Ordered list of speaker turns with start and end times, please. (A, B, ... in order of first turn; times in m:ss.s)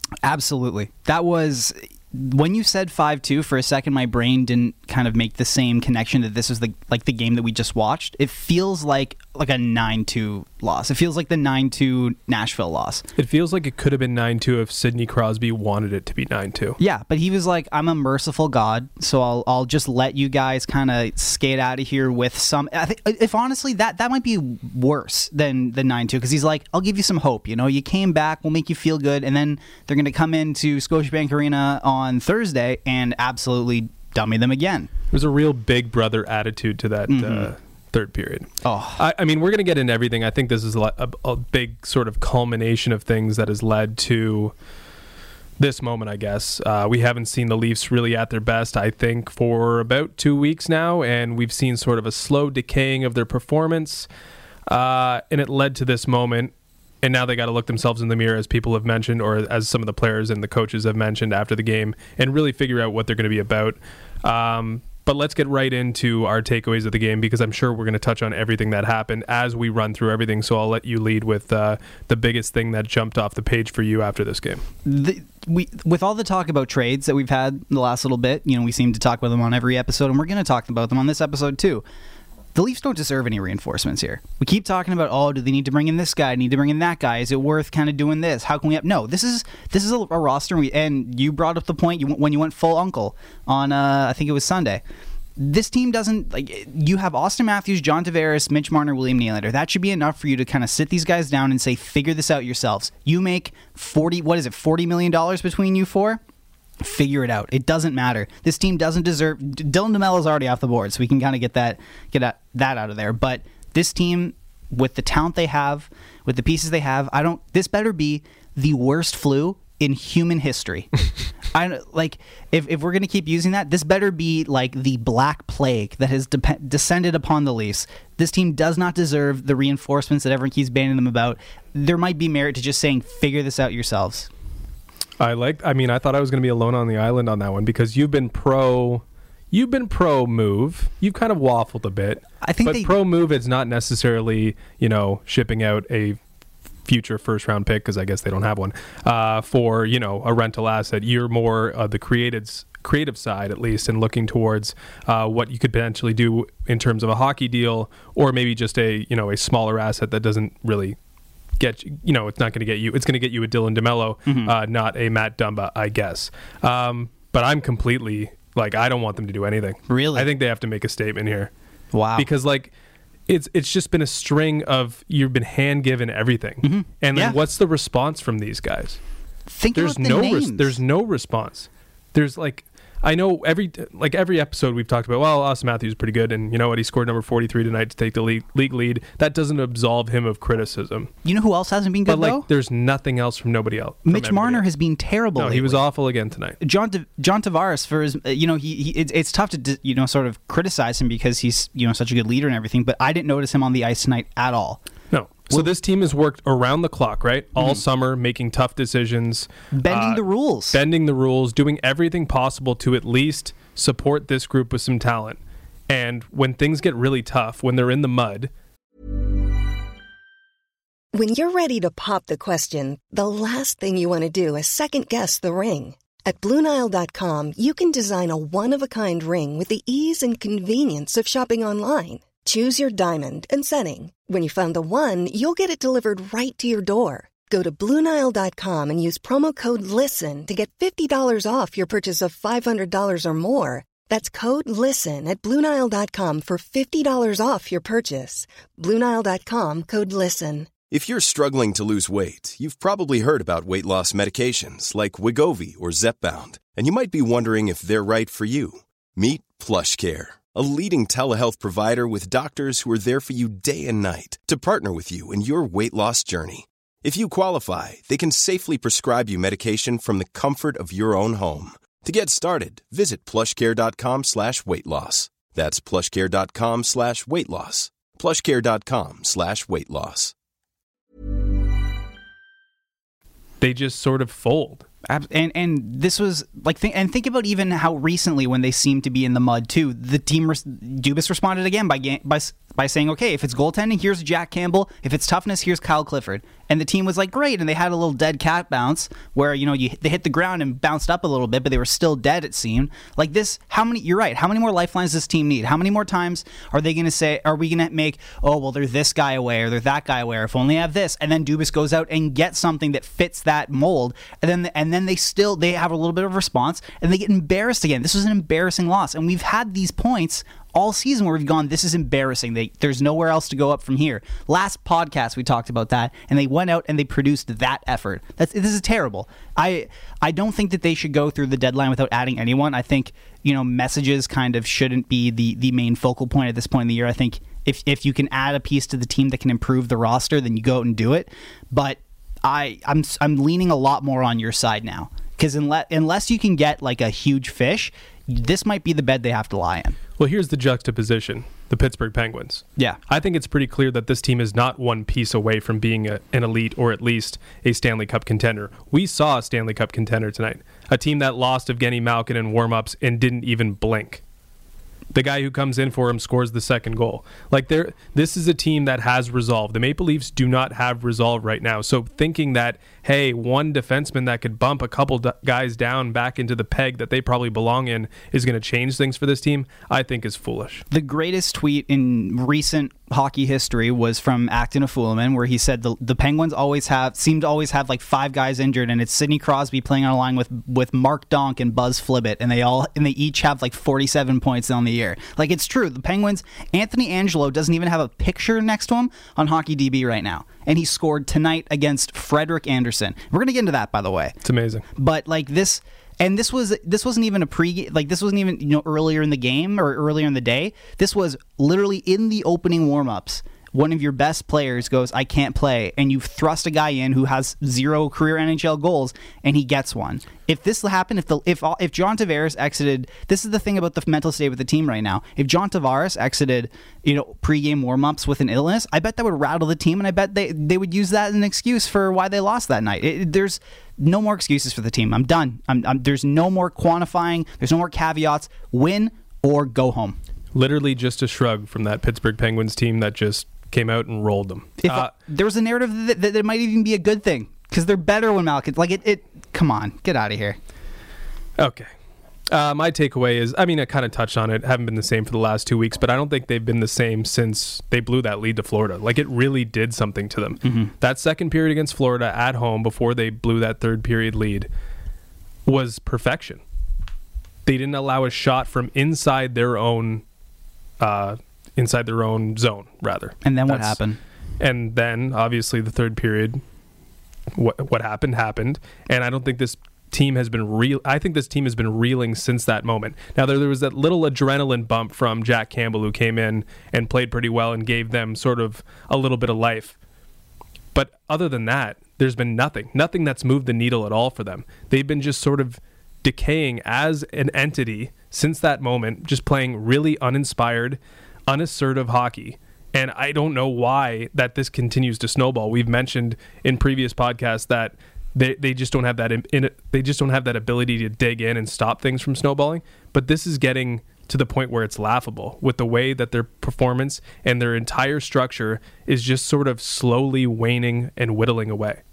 0:00.2-0:13.0 A
0:13.2-0:16.8 B
0:16.8-0:34.9 A
0:35.1-0:44.5 B
0:37.1-0:37.5 A
0:38.6-0:39.0 A
0:45.6-0:54.1 B
0:54.7-1:14.6 B
1:14.8-1:21.8 A
1:22.6-1:34.8 A
1:35.4-1:46.2 A
1:46.8-2:00.9 A
2:01.5-2:14.3 A
2:15.2-2:26.2 B
2:22.4-2:23.0 A
2:26.8-2:41.0 B
2:41.6-2:51.5 B
2:44.3-2:44.5 A
2:49.9-2:50.3 A
2:51.9-2:52.3 A
2:52.2-2:52.7 B
2:53.3-2:59.0 B
2:56.6-2:57.4 A
2:59.5-3:00.8 A
2:59.8-3:11.1 B
3:11.2-3:12.5 A
3:12.1-3:14.7 B
3:14.0-3:15.9 A
3:15.4-3:16.6 B
3:16.6-3:24.8 A
3:25.1-3:38.5 B
3:29.7-3:30.8 A
3:41.1-4:10.7 C
4:10.9-4:40.3 D
4:43.6-4:44.9 B
4:45.1-5:50.0 A
5:50.2-6:04.2 B
6:05.1-6:20.8 B
6:20.9-6:44.4 A
6:44.4-6:44.8 B
6:45.0-7:20.2 A
7:20.6-7:25.1 B
7:24.8-7:30.6 A
7:31.6-7:31.9 B
7:32.5-7:44.7 B
7:40.6-7:40.9 A
7:45.7-7:46.6 B
7:47.7-7:50.2 B
7:51.0-7:54.0 B
7:53.4-7:54.2 A
7:54.6-7:56.6 B
7:57.5-8:10.0 B
8:10.9-8:42.0 B